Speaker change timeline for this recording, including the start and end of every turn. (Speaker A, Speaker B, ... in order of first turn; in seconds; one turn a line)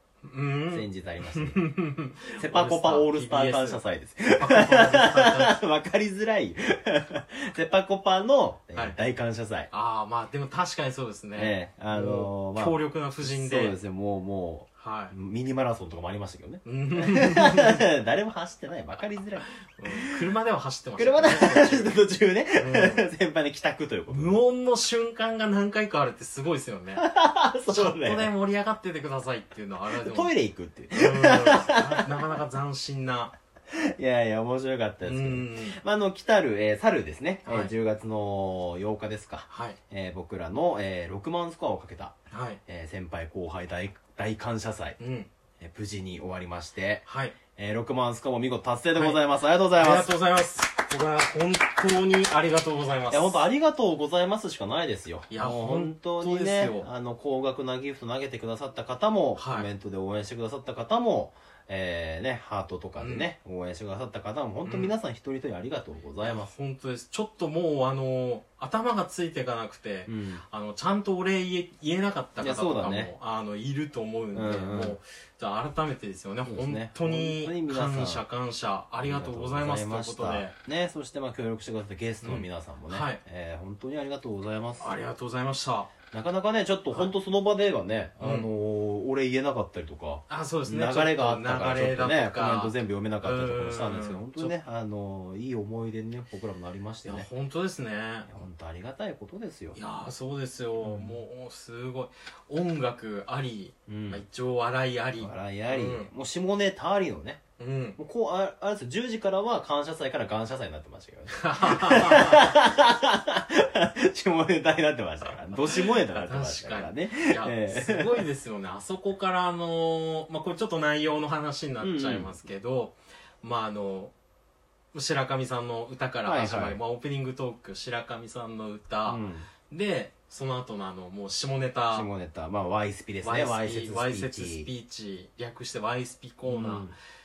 Speaker A: 0.2-3.8
Speaker B: 0.7-1.7
Speaker B: 2.3-9.7
Speaker A: 4.4-5.5
Speaker A: 9.7-13.8
Speaker B: 11.3-20.1
Speaker A: 14.8-15.1
Speaker A: 16.6-17.8
Speaker A: 19.6-22.0
Speaker B: 21.0-24.4
Speaker A: 22.6-23.0
Speaker A: 24.1-27.0
Speaker B: 26.9-28.3
Speaker A: 27.7-30.3
Speaker B: 29.9-32.1
Speaker A: 30.9-33.3
Speaker B: 33.7-42.1
Speaker A: 35.0-35.8
Speaker A: 37.5-37.7
Speaker A: 39.5-39.8
Speaker A: 42.3-42.6
Speaker B: 42.7-45.0
Speaker A: 45.0-45.3
Speaker B: 45.6-50.1
Speaker A: 47.1-47.4
Speaker A: 48.9-49.2
Speaker A: 49.7-53.4
Speaker B: 53.1-66.5
Speaker A: 55.3-56.9
Speaker A: 59.4-59.7
Speaker A: 63.0-63.3
Speaker A: 64.6-64.9
Speaker A: 66.2-80.5
Speaker B: 70.1-70.4
Speaker B: 72.4-73.1
Speaker B: 74.3-75.0
Speaker B: 76.5-78.2
Speaker B: 79.0-85.0
Speaker A: 82.2-83.2
Speaker A: 84.8-85.9
Speaker B: 86.1-97.3
Speaker A: 88.2-88.5
Speaker A: 90.3-94.5
Speaker A: 97.0-98.3
Speaker B: 98.2-99.8
Speaker A: 99.8-106.1
Speaker B: 100.8-101.2
Speaker B: 103.9-104.2
Speaker B: 105.2-107.4
Speaker A: 107.6-108.0
Speaker B: 108.0-118.2
Speaker A: 111.3-112.5
Speaker A: 115.6-124.1
Speaker B: 121.8-122.4
Speaker A: 124.9-132.1
Speaker B: 126.2-126.8
Speaker B: 129.1-129.5
Speaker B: 131.9-134.7
Speaker A: 133.2-136.9
Speaker B: 136.5-136.9